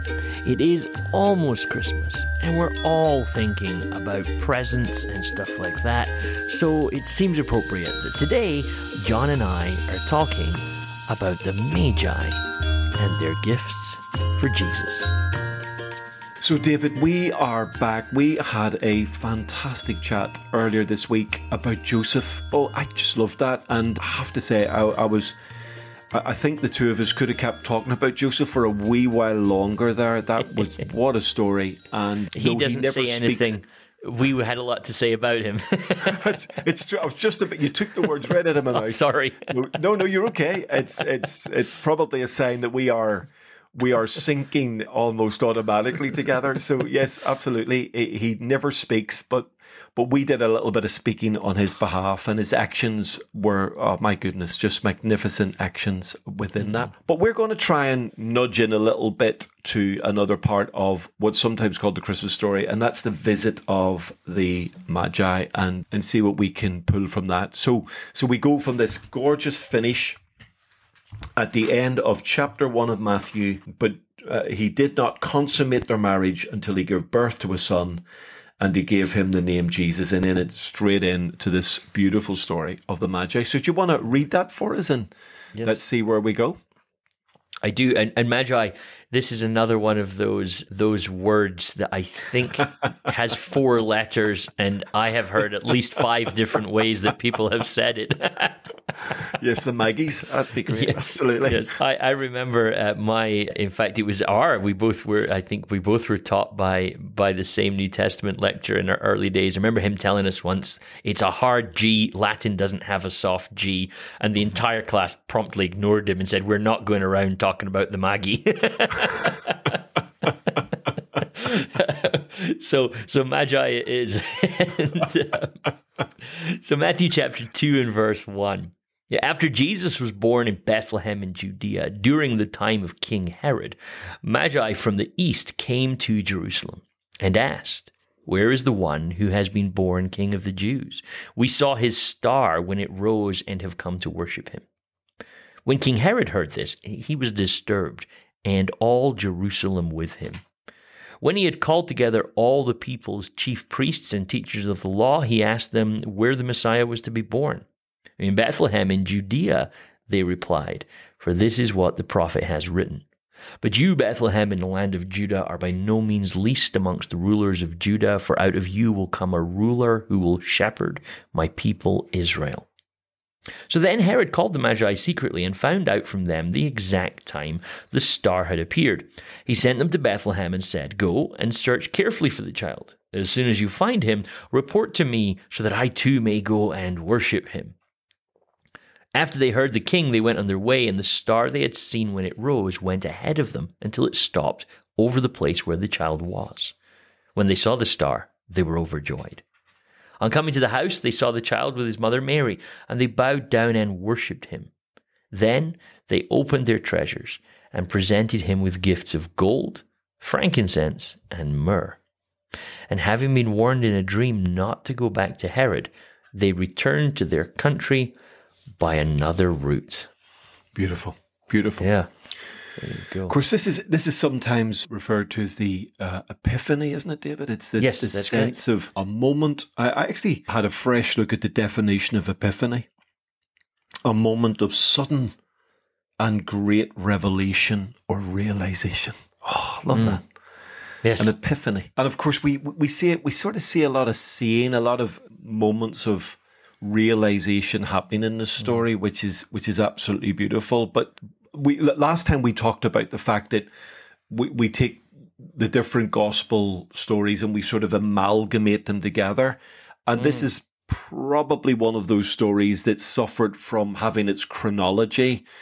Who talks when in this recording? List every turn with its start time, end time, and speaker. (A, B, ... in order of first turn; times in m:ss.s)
0:00.4-0:12.4 A
0:13.0-0:15.1 A
0:16.4-0:25.4 B
0:26.1-0:33.6 B
0:32.3-0:36.4 A
0:36.0-1:10.2 B
0:38.7-0:39.5 A
1:11.4-1:18.0 B
1:18.6-1:25.1 B
1:25.5-1:25.8 A
1:25.6-1:26.6 B
1:27.6-1:38.7 A
1:39.3-1:41.7 B
1:40.7-2:05.7 A
2:06.2-2:24.6 A
2:25.6-2:30.4 A
2:31.2-2:37.6 A
2:38.2-2:43.0 A
2:43.6-2:52.7 A
2:53.7-3:07.7 A
3:09.1-3:16.7 A
3:17.3-3:19.4 A
3:20.2-3:24.7 A
3:25.3-3:32.0 A
3:32.9-3:38.1 A
3:38.8-3:40.1 A
3:40.7-3:41.9 B
3:41.8-3:42.1 A
3:42.8-3:43.3 A
3:43.3-3:52.9 B
3:47.8-3:48.6 A
3:54.0-3:55.4 B
3:56.2-4:00.2 B
3:59.9-4:00.2 A
4:01.0-4:01.3 A
4:01.2-4:13.7 B
4:14.3-4:25.4 B
4:20.2-4:20.5 A